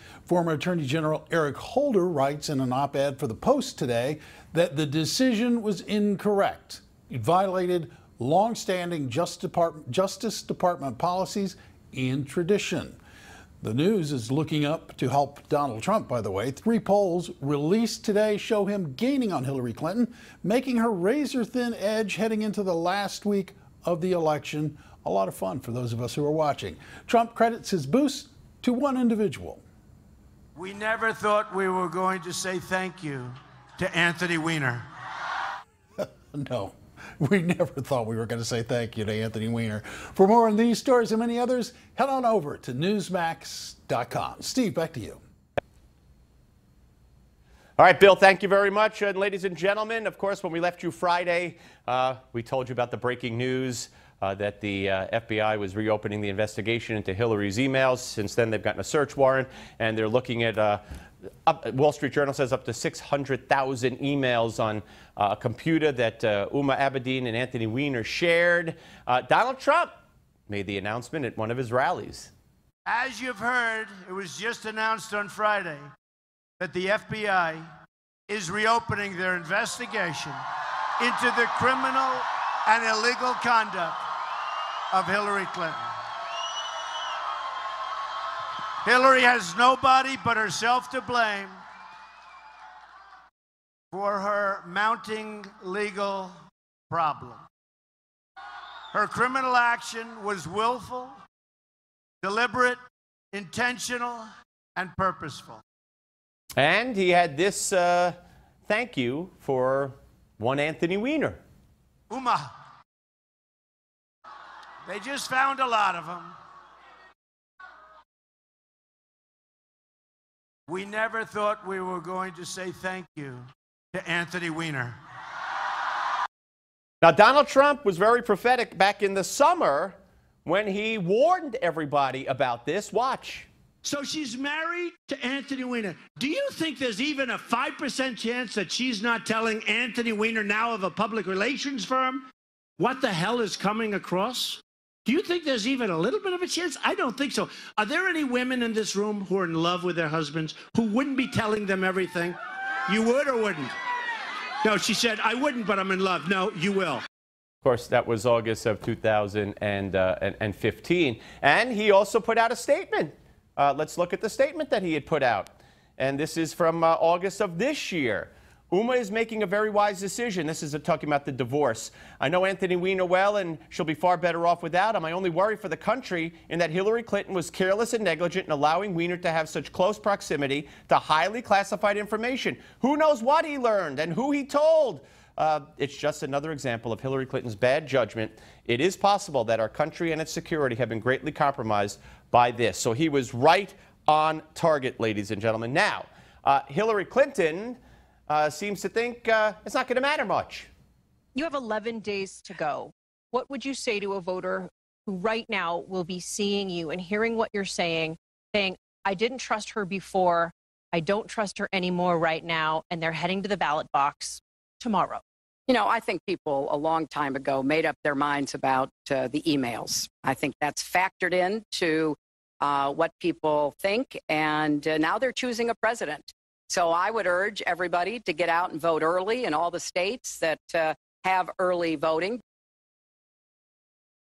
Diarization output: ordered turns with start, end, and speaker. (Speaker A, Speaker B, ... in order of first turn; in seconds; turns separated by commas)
Speaker A: 0.3-13.0, Speaker A: 13.6-29.6, Speaker B: 30.6-34.8, Speaker A: 36.0-45.2, Speaker C: 47.8-60.8, Speaker C: 61.5-70.0, Speaker C: 70.5-72.3, Speaker B: 72.8-75.8, Speaker B: 76.6-77.6, Speaker B: 78.3-80.4, Speaker B: 81.0-84.0, Speaker B: 84.9-85.9, Speaker B: 88.8-91.5, Speaker B: 93.9-96.3, Speaker B: 96.9-97.4, Speaker B: 98.9-101.1, Speaker B: 102.2-102.8, Speaker B: 103.3-105.6, Speaker C: 106.6-108.2, Speaker C: 108.7-111.4, Speaker B: 112.1-112.5, Speaker B: 114.8-116.3, Speaker B: 120.7-125.0, Speaker C: 127.0-133.5, Speaker B: 133.8-142.2, Speaker B: 142.8-152.4, Speaker B: 152.9-153.7, Speaker B: 154.6-157.0, Speaker C: 157.6-200.7, Speaker D: 201.3-215.2, Speaker E: 215.7-232.4